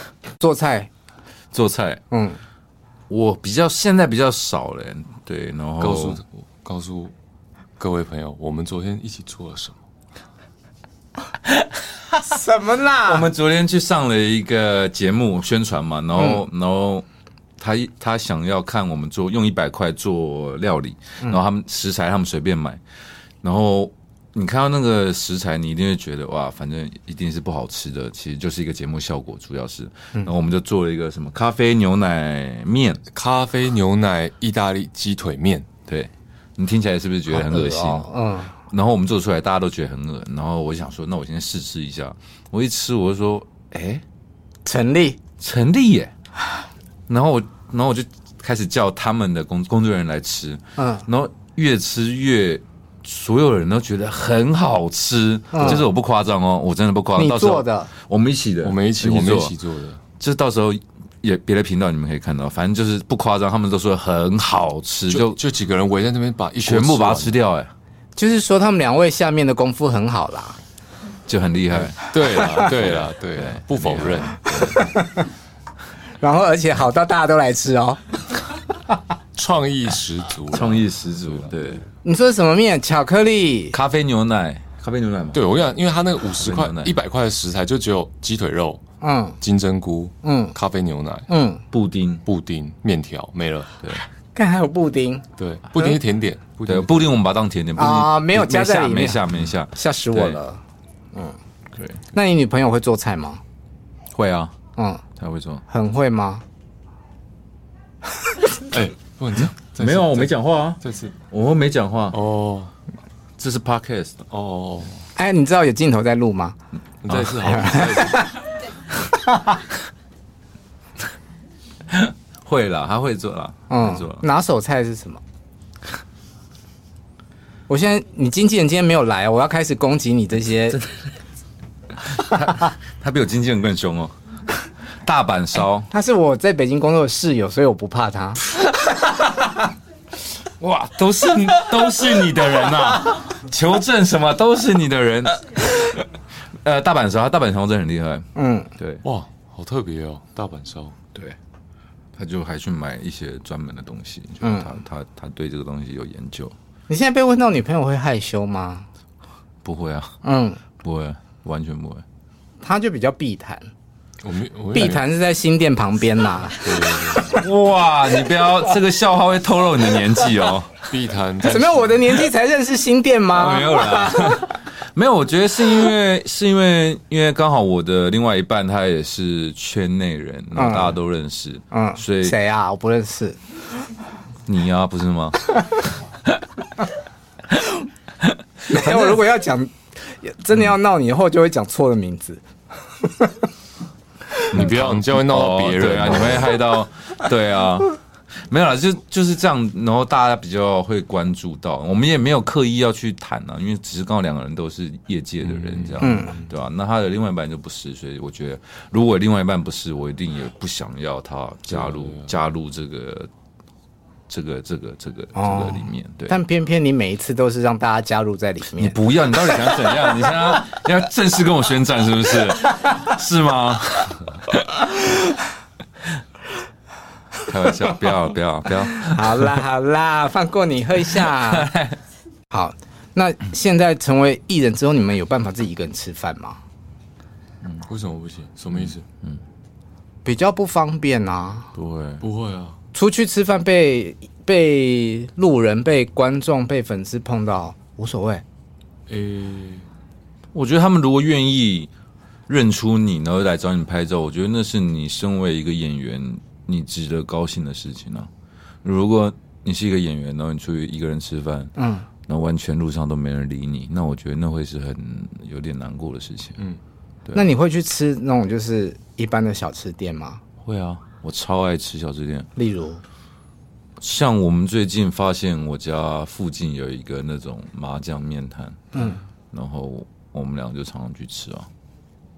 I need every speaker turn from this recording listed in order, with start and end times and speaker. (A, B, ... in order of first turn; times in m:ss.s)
0:00.4-0:00.9 A
0:01.5-0:02.0 B
0:02.1-0:02.4 A
0:03.1-0:06.2 B
0:05.8-0:07.1 C
0:07.8-0:09.8 C
0:12.2-0:13.3 A
0:13.0-0:17.0 B
0:16.2-0:16.4 A
0:17.6-0:22.8 B
0:23.4-0:33.0 B
0:33.1-0:35.7 C
0:35.9-0:38.1 B
0:37.3-0:38.5 A
0:38.7-0:44.0 B
0:44.6-0:45.2 A
0:45.4-0:46.1 B
0:47.1-0:59.6 B
0:50.8-0:51.0 A
0:55.5-0:55.8 A
0:57.2-0:57.9 A
0:58.6-1:00.0 C
1:00.2-1:05.4 B
1:05.1-1:07.4 C
1:06.6-1:07.7 B
1:08.2-1:10.6 A
1:11.3-1:14.9 B
1:11.7-1:14.7 C
1:14.6-1:15.3 A
1:16.2-1:18.0 A
1:19.4-1:20.9 C
1:20.5-1:21.9 B
1:22.0-1:23.8 A
1:23.7-1:25.6 B
1:25.3-1:28.8 C
1:26.4-1:26.9 B
1:29.0-1:29.4 A
1:29.4-1:31.3 C
1:30.2-1:30.6 A
1:31.3-1:31.6 A
1:31.7-1:32.2 B
1:32.2-1:33.8 C
1:34.4-1:35.2 A
1:35.4-1:37.1 C
1:36.7-1:40.4 B
1:37.8-1:39.2 A
1:39.7-1:40.6 A
1:42.1-1:43.4 A
1:44.1-1:44.6 B
1:44.8-1:45.0 A
1:45.2-1:45.6 B
1:45.7-1:46.4 A
1:48.7-1:51.2 C
1:49.7-1:50.8 B
1:51.3-1:52.2 B
1:52.1-1:52.7 C
1:53.4-1:54.2 B
1:54.3-1:55.0 C
1:55.2-1:56.6 A
1:57.0-1:58.3 C
1:57.1-1:57.6 B
1:57.5-1:58.3 A
2:01.9-2:04.2 B
2:03.7-2:05.2 A
2:07.7-2:10.8 A
2:12.2-2:15.9 B
2:15.9-2:18.4 A
2:19.0-2:19.5 B
2:20.6-2:26.1 B
2:26.6-2:29.0 B
2:28.4-2:28.7 A
2:29.0-2:31.0 C
2:32.2-2:36.6 B
2:34.4-2:34.7 A
2:36.9-2:38.9 A
2:39.6-2:40.2 B
2:40.2-2:40.6 A
2:40.8-2:42.0 B
2:42.6-2:43.7 A
2:44.2-2:45.0 C
2:44.7-2:46.6 A
2:46.6-2:47.4 C
2:47.3-2:50.8 B
2:50.9-2:51.9 C
2:51.5-2:54.4 A
2:53.3-3:02.4 B
3:00.6-3:01.0 A
3:01.7-3:03.4 A
3:04.5-3:06.0 B
3:08.2-3:09.2 B
3:08.7-3:12.4 A
3:14.5-3:16.6 C
3:14.5-3:33.3 B
3:25.4-3:26.5 C
3:26.0-3:26.4 A
3:31.7-3:32.3 C
3:34.3-3:36.4 B
3:35.4-3:39.0 A
3:38.8-3:44.7 B
3:47.4-3:49.5 B
3:49.0-3:51.7 A
3:51.3-3:52.0 B
3:52.5-3:56.6 A
3:57.8-3:59.0 C
4:00.2-4:01.7 A
4:01.8-4:02.2 B
4:02.2-4:02.8 C
4:02.9-4:08.4 A
4:09.1-4:09.9 C
4:10.5-4:11.9 B
4:12.5-4:18.3 B
4:18.8-4:21.8 B
4:21.8-4:22.1 A
4:22.3-4:26.6 B
4:27.3-4:30.4 A
4:30.6-4:32.5 B
4:32.6-4:33.0 A
4:34.0-4:41.7 B
4:39.0-4:39.2 A